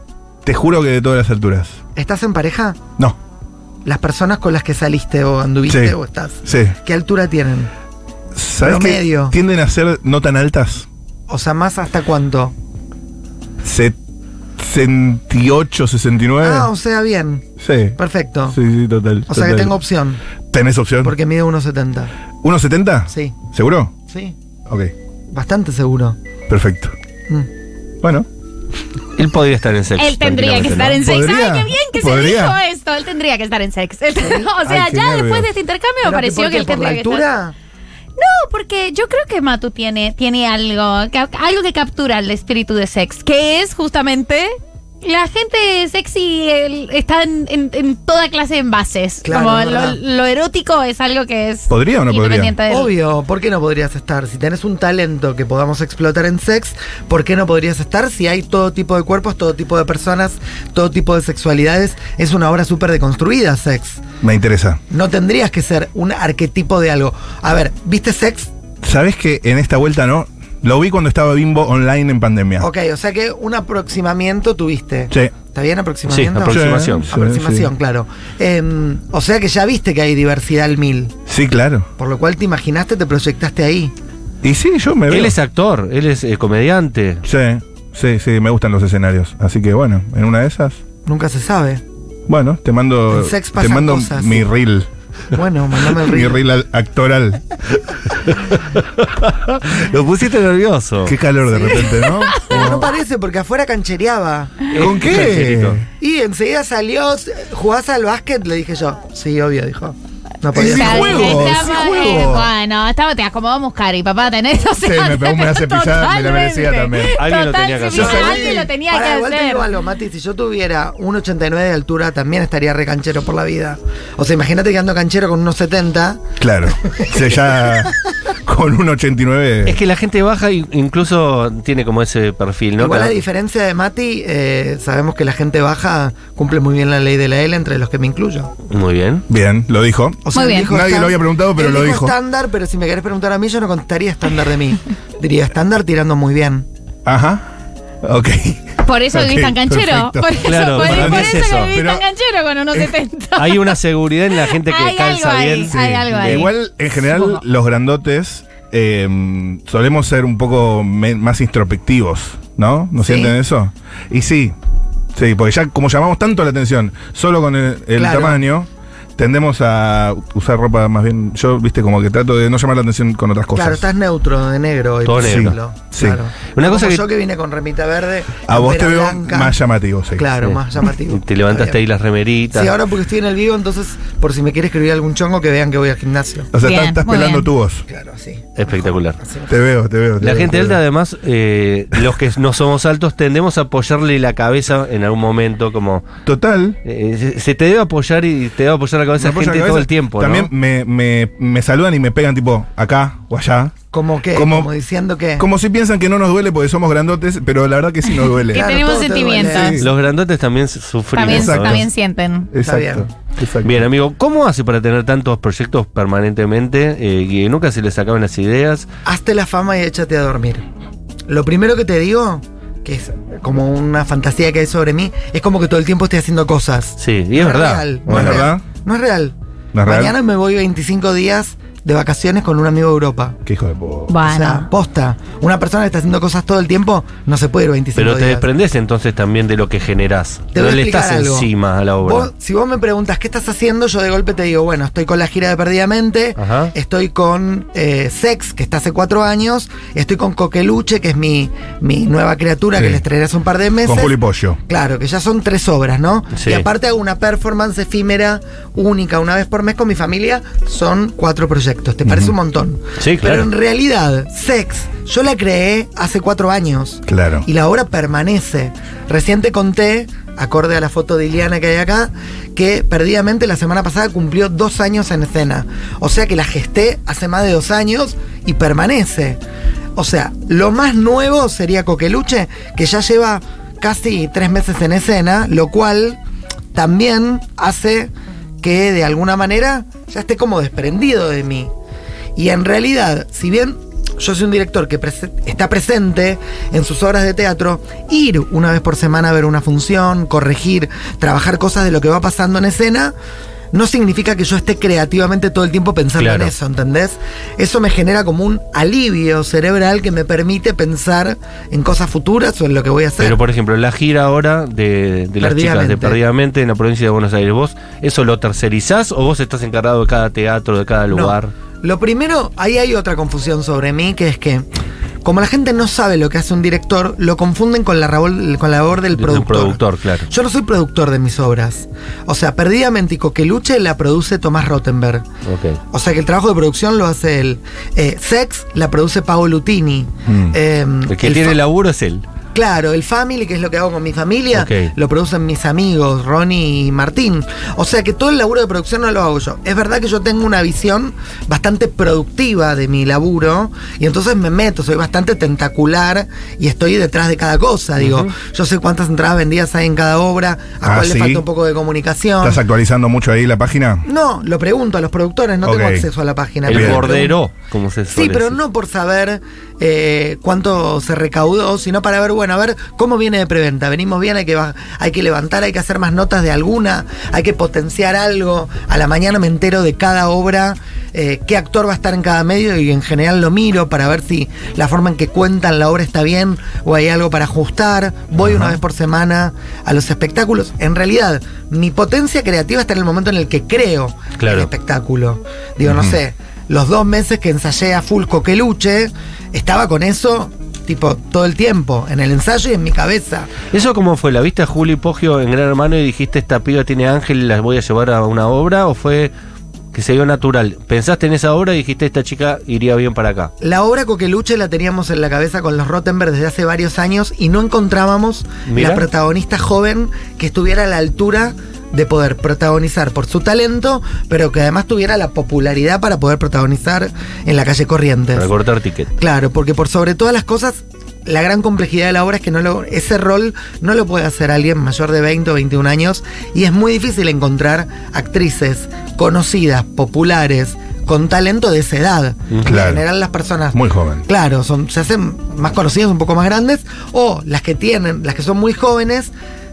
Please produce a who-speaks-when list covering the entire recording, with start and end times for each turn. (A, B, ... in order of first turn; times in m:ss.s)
0:00.4-0:01.8 A
0:02.0-0:02.8 B
0:03.8-0:07.7 B
0:05.7-0:06.8 A
0:08.3-0:10.9 A
0:08.6-0:09.4 B
0:11.3-0:12.5 B
0:13.6-0:14.0 A
0:14.6-0:16.7 A
0:16.4-0:17.4 B
0:17.6-0:18.0 A
0:18.0-0:18.6 B
0:18.5-0:19.8 A
0:19.3-0:20.2 B
0:20.5-0:21.2 A
0:21.0-0:22.1 B
0:22.4-0:23.9 A
0:23.1-0:23.4 B
0:24.1-0:24.4 B
0:25.3-0:26.2 B
0:26.5-0:27.0 A
0:28.0-0:28.3 A
0:29.2-0:31.1 C
0:30.0-0:37.2 D
0:31.0-0:32.6 A
0:34.2-0:34.5 B
0:34.6-0:35.5 A
0:36.0-0:37.5 B
0:38.2-0:52.9 D
0:49.2-0:50.0 B
0:51.7-0:52.6 A
0:52.7-1:04.0 B
1:04.2-1:04.8 A
1:04.9-1:08.5 B
1:08.8-1:12.7 A
1:12.6-1:21.2 B
1:16.1-1:17.1 C
1:16.5-1:17.7 A
1:21.3-1:21.9 A
1:22.0-1:23.9 B
1:24.4-1:25.4 A
1:25.1-1:27.2 C
1:27.2-1:30.8 A
1:31.1-1:31.8 B
1:32.3-1:34.9 A
1:33.1-1:34.5 B
1:35.3-1:36.4 B
1:35.8-1:38.1 A
1:38.7-1:41.2 C
1:41.1-1:42.9 A
1:41.5-1:44.7 B
1:42.0-1:42.9 D
1:44.7-1:45.8 C
1:44.8-1:45.8 A
1:46.0-1:52.3 B
1:50.6-1:52.5 A
1:50.6-1:59.7 D
1:54.8-1:57.2 A
1:57.2-1:58.5 C
1:57.9-1:58.6 A
1:58.0-2:06.2 B
2:06.4-2:09.8 A
2:06.8-2:07.9 B
2:09.7-2:13.2 C
2:12.8-2:18.5 B
2:18.7-2:19.2 C
2:19.3-2:22.2 A
2:20.2-2:26.7 B
2:20.3-2:20.7 D
2:27.0-2:27.5 A
2:28.0-2:32.1 A
2:28.8-2:33.8 D
2:30.4-2:31.7 C
2:32.7-2:33.0 A
2:33.4-2:36.5 C
2:34.3-2:37.4 D
2:35.7-2:44.6 A
2:43.0-2:43.4 B
2:45.2-2:53.8 A
2:48.0-2:48.4 B
2:53.5-2:59.6 B
2:55.0-2:55.6 C
2:55.2-2:56.2 A
2:56.6-2:57.0 C
2:58.5-3:00.3 A
3:00.2-3:01.8 B
3:00.4-3:02.7 C
3:02.5-3:06.5 B
3:06.5-3:07.8 A
3:06.6-3:07.5 D
3:07.9-3:09.6 B
3:08.6-3:09.2 C
3:09.5-3:10.8 A
3:10.2-3:16.1 C
3:16.2-3:16.8 A
3:16.8-3:20.5 C
3:19.2-3:23.8 A
3:23.9-3:25.5 B
3:24.3-3:24.7 A
3:25.4-3:28.8 A
3:28.2-3:29.8 D
3:28.5-3:29.8 B
3:29.4-3:29.9 A
3:29.8-3:31.8 C
3:31.1-3:32.5 D
3:31.3-3:31.9 A
3:32.5-3:33.9 A
3:32.6-3:33.1 B
3:33.6-3:38.9 C
3:39.0-3:40.6 B
3:41.3-3:53.4 B
3:47.0-3:48.4 C
3:48.1-3:48.6 A
3:49.7-3:50.2 A
3:53.4-3:54.2 A
3:54.1-3:54.7 D
3:54.2-3:58.5 B
3:58.0-4:02.3 C
4:00.5-4:01.5 B
4:02.0-4:14.2 B
4:06.4-4:06.7 C
4:13.8-4:14.6 A
4:14.7-4:39.4 B
4:16.3-4:16.7 C
4:22.1-4:22.3 A
4:23.0-4:23.5 C
4:27.1-4:27.5 A
4:40.0-4:46.2 B
4:46.7-4:51.7 B
4:52.4-5:03.1 B
5:03.7-5:13.4 B
5:06.2-5:06.5 C
5:13.2-5:21.5 C
5:15.4-5:16.2 B
5:21.1-5:24.7 B
5:25.2-5:35.3 B
5:29.1-5:30.3 C
5:35.5-5:35.8 C
5:35.9-5:41.6 B
5:40.3-5:40.6 A
5:41.1-5:42.2 C
5:42.5-6:02.6 B
5:44.5-5:44.9 C
5:58.0-5:58.3 C
6:00.8-6:01.4 A
6:02.4-6:04.1 A
6:04.0-6:07.4 B
6:05.6-6:06.1 A
6:06.7-6:08.6 C
6:06.7-6:07.1 A
6:08.1-6:43.5 B
6:28.4-6:28.8 A
6:34.4-6:34.7 C
6:35.9-6:36.2 A
6:43.7-6:49.3 C
6:49.9-6:53.5 C
6:53.6-7:08.5 B
6:58.7-6:59.1 C
7:08.4-7:09.1 C
7:09.2-7:29.3 B
7:22.5-7:22.8 C
7:22.6-7:23.0 A
7:23.7-7:24.2 A